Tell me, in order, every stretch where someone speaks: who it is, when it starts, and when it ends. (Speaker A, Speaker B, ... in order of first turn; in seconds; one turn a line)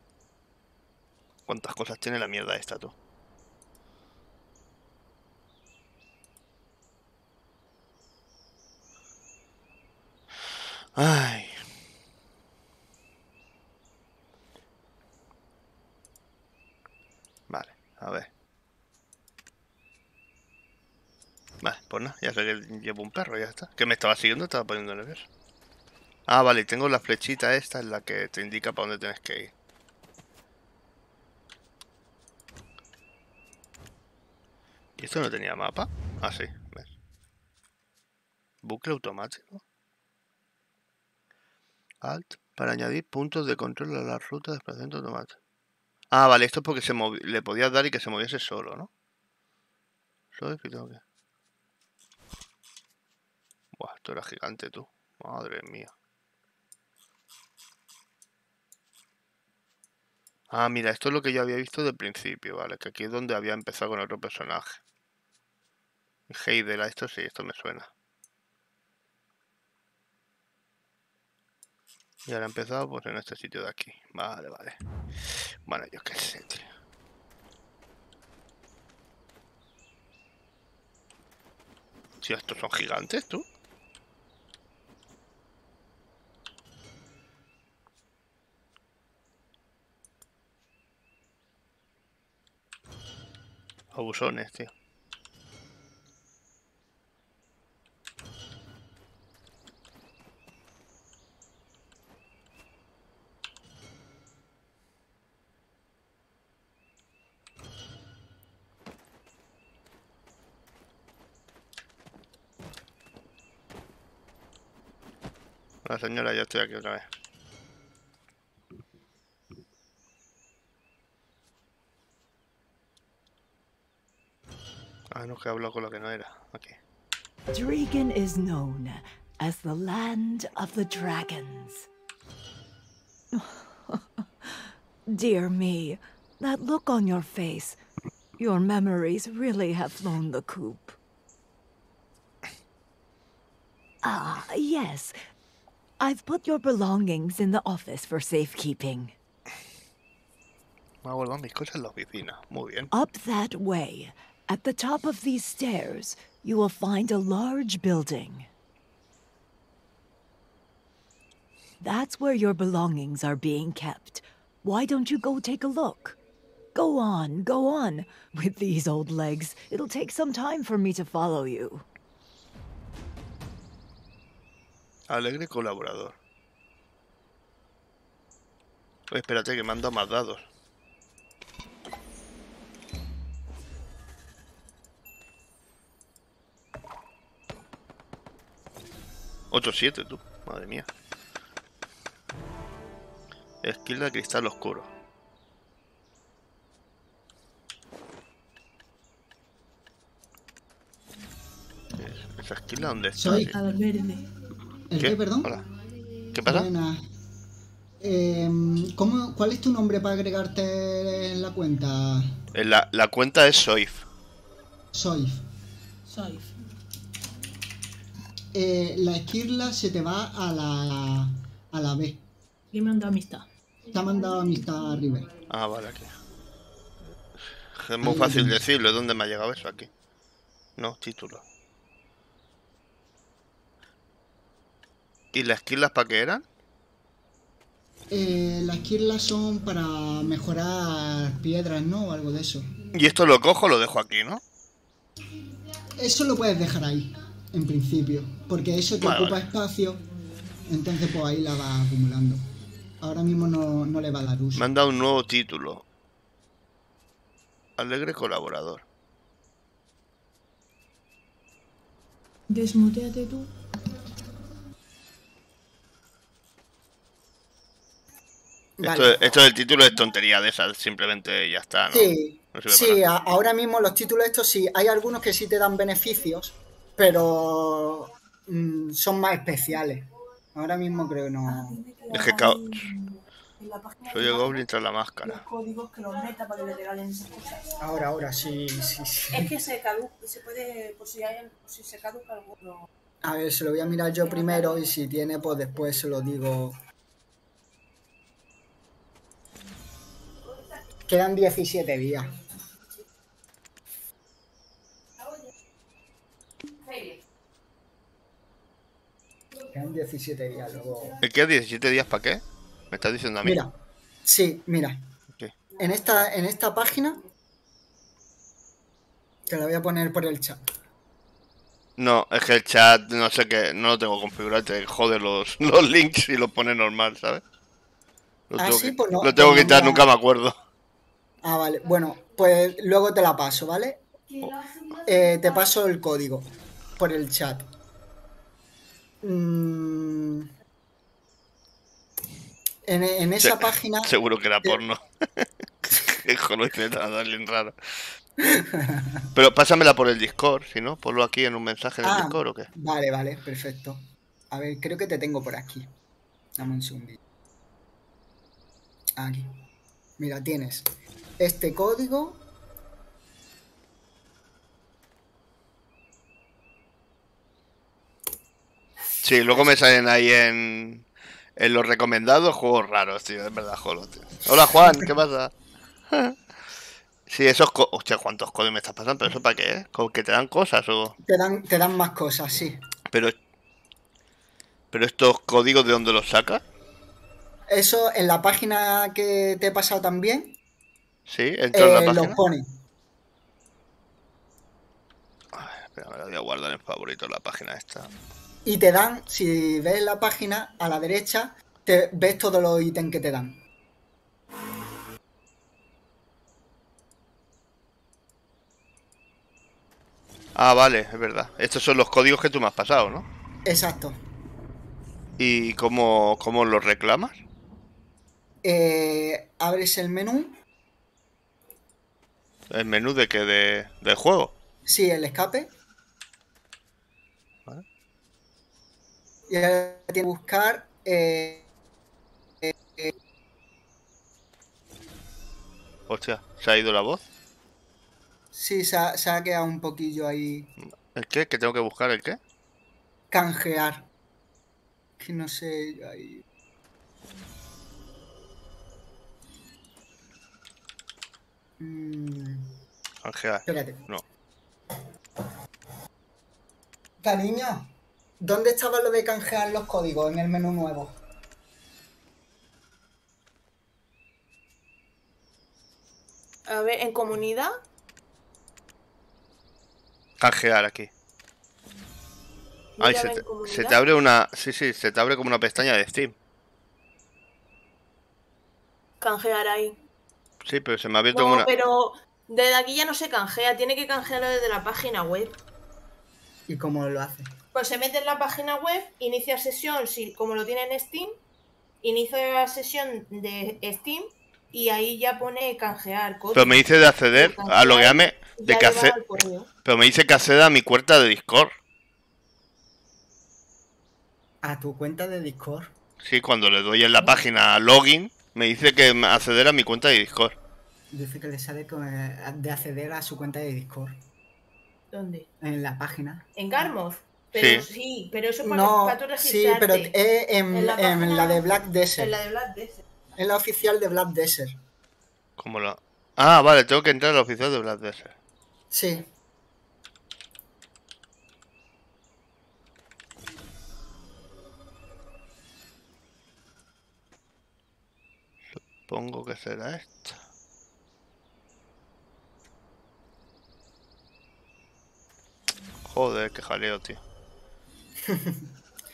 Speaker A: 1.5-2.9
Speaker A: 10.9-11.6
Speaker A: 17.5-18.3
Speaker A: 21.6-25.3
Speaker A: 26.3-29.5
Speaker A: 35.0-36.9
Speaker A: 38.6-39.6
Speaker A: 42.0-45.4
Speaker A: 46.1-48.9
Speaker A: 50.3-51.0
Speaker A: 53.7-55.9
Speaker A: 60.5-64.8
Speaker A: 66.3-67.9
Speaker A: 72.3-76.7
Speaker A: 82.2-83.4
Speaker A: 93.9-94.7
Speaker A: 115.8-117.0
Speaker A: 125.1-126.8
Speaker B: 127.5-131.9
Speaker B: 133.3-137.8
Speaker B: 138.4-140.9
Speaker B: 144.0-145.1
Speaker B: 146.0-149.1
Speaker A: 151.0-152.9
Speaker B: 152.9-158.5
Speaker B: 161.8-166.2
Speaker B: 166.7-171.8
Speaker A: 175.1-176.1
Speaker A: 179.1-180.4
Speaker A: 189.5-190.9
Speaker A: 193.6-194.9
Speaker A: 201.9-203.6
Speaker C: 203.2-203.5
Speaker D: 203.3-204.3
Speaker C: 204.9-205.5
Speaker A: 205.0-205.6
Speaker A: 206.3-206.7
Speaker C: 206.4-207.0
Speaker C: 208.0-212.4
Speaker A: 212.5-214.1
Speaker C: 214.9-215.4
Speaker D: 216.1-216.5
Speaker C: 218.5-222.2
Speaker D: 222.7-223.5
Speaker C: 223.9-225.3
Speaker A: 225.5-226.1
Speaker A: 227.7-229.9
Speaker C: 228.0-228.6
Speaker A: 230.8-231.4
Speaker A: 235.3-236.4
Speaker C: 238.1-242.7
Speaker A: 242.9-244.4
Speaker C: 245.9-250.0
Speaker A: 249.0-249.5
Speaker C: 250.7-252.4
Speaker C: 253.0-254.7
Speaker A: 254.6-255.8
Speaker A: 257.8-258.8
Speaker D: 262.5-263.5
Speaker C: 268.8-269.2
Speaker A: 268.8-273.0
Speaker C: 271.9-281.8
Speaker D: 281.4-284.6
Speaker A: 282.1-282.9
Speaker A: 284.1-285.4
Speaker D: 285.2-287.8
Speaker C: 287.8-289.5
Speaker D: 289.3-292.9
Speaker C: 293.2-296.8
Speaker C: 301.1-302.4
Speaker C: 309.7-311.2
Speaker A: 311.2-313.6
Speaker C: 313.4-315.1
Speaker C: 315.8-317.2
Speaker C: 319.5-320.6
Speaker A: 322.0-327.4
Speaker A: 328.5-330.6
Speaker C: 328.6-330.1
Speaker C: 331.4-334.1
Speaker C: 334.9-337.7
Speaker C: 339.2-340.5
Speaker C: 342.8-344.8
Speaker A: 343.4-348.1
Speaker C: 348.4-349.3
Speaker A: 349.3-352.7
Speaker C: 352.0-355.9
Speaker C: 356.6-357.2
Speaker C: 359.2-359.5
Speaker C: 360.2-362.4
Speaker A: 369.2-371.1
Speaker A: 371.6-375.5
Speaker A: 376.1-376.4
Speaker A: 377.3-381.1
Speaker C: 381.2-382.8
Speaker A: 384.9-386.6
Speaker C: 387.7-390.6
Speaker A: 391.3-392.4
Speaker C: 391.7-392.7
Speaker A: 395.5-398.1
Speaker C: 398.6-403.6
Speaker A: 410.5-413.2
Speaker C: 413.6-414.2
Speaker A: 415.4-417.4
Speaker C: 418.6-420.6
Speaker A: 422.7-424.5
Speaker C: 424.9-425.7
Speaker C: 429.5-431.7
Speaker C: 432.6-433.1
Speaker A: 436.1-437.2
Speaker C: 438.5-440.7
Speaker A: 440.8-442.4
Speaker C: 443.3-444.1
Speaker C: 445.2-446.4
Speaker C: 451.8-452.7
Speaker A: 453.2-454.2
Speaker C: 453.6-454.1
Speaker C: 457.2-461.2
Speaker D: 466.7-467.7
Speaker A: 470.4-471.1
Speaker D: 473.0-474.0
Speaker A: 473.0-476.3
Speaker D: 479.2-479.9
Speaker A: 480.6-481.7
Speaker D: 481.3-485.6
Speaker C: 486.7-487.5
Speaker D: 487.7-491.3
Speaker D: 492.0-499.7
Speaker A: 496.5-499.2
Speaker A: 499.8-501.7
Speaker C: 504.6-505.9
Speaker A: 506.2-510.6
Speaker C: 511.1-514.2
Speaker D: 515.1-515.5
Speaker C: 515.6-516.9
Speaker D: 516.5-520.1
Speaker A: 517.5-517.8
Speaker C: 518.6-522.3
Speaker D: 520.7-521.6
Speaker D: 522.2-523.0
Speaker C: 523.4-524.8
Speaker A: 525.6-528.3
Speaker C: 528.9-529.3
Speaker A: 538.8-540.4
Speaker A: 546.1-547.2
Speaker C: 548.2-548.7